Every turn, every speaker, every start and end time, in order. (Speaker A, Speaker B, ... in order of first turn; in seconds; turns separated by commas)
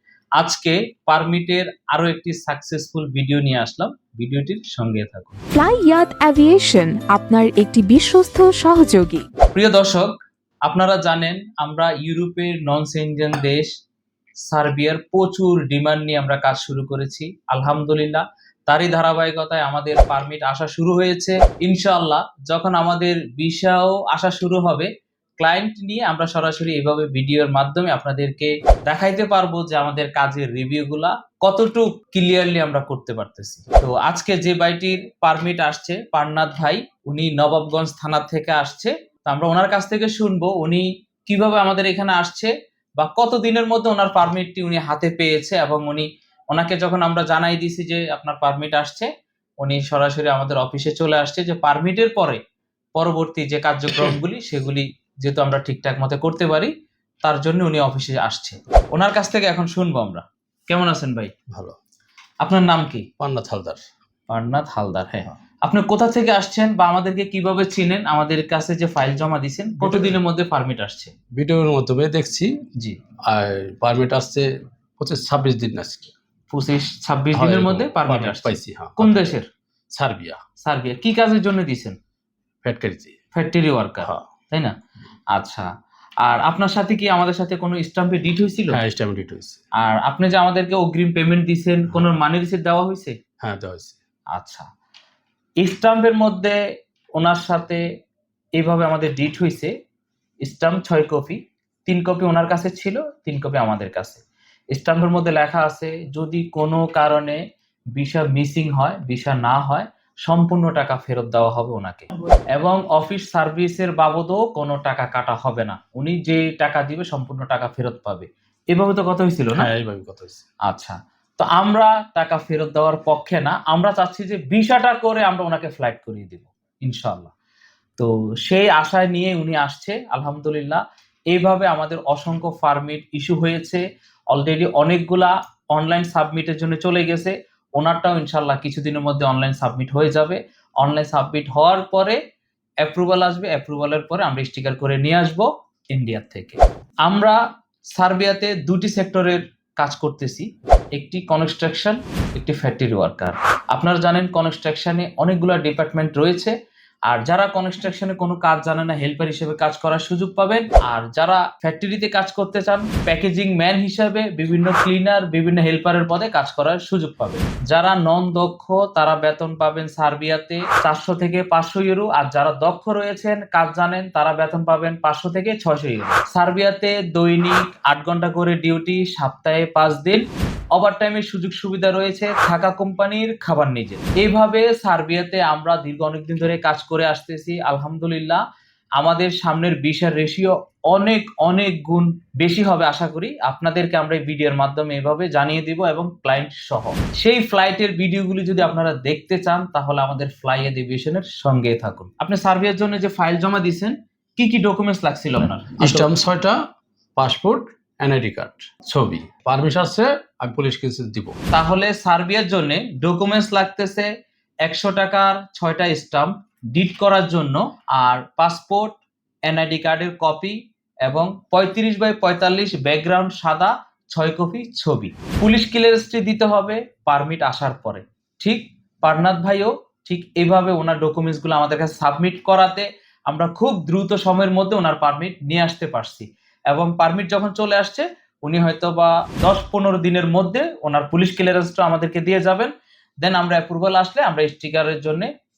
Speaker A: 0.4-5.4, Speaker B: 5.5-9.2, Speaker A: 9.5-10.1, Speaker A: 10.7-13.7, Speaker A: 14.4-52.4, Speaker A: 53.0-56.7, Speaker A: 57.2-61.3, Speaker C: 61.5-61.8, Speaker A: 62.4-63.1, Speaker C: 63.2-63.8, Speaker A: 64.3-71.1, Speaker C: 69.8-70.2, Speaker C: 71.3-72.6, Speaker C: 73.2-76.1, Speaker A: 76.5-79.5, Speaker C: 77.3-79.4, Speaker C: 79.9-80.4, Speaker A: 80.6-82.0, Speaker C: 82.6-83.2, Speaker A: 83.3-84.7, Speaker C: 84.0-84.3, Speaker A: 85.3-85.7, Speaker A: 86.2-88.8, Speaker C: 88.7-89.6, Speaker A: 89.8-93.2, Speaker C: 93.4-94.0, Speaker A: 94.3-94.7, Speaker A: 95.6-96.6, Speaker A: 97.2-97.8, Speaker A: 98.6-99.7, Speaker A: 100.4-107.4, Speaker A: 107.9-119.7, Speaker C: 119.5-120.4, Speaker A: 120.7-127.3, Speaker A: 128.0-142.2, Speaker A: 142.8-147.4, Speaker A: 147.9-156.5, Speaker A: 157.1-188.4, Speaker A: 189.0-206.1, Speaker C: 205.8-206.6, Speaker C: 207.2-211.3, Speaker A: 211.5-214.1, Speaker A: 214.6-245.3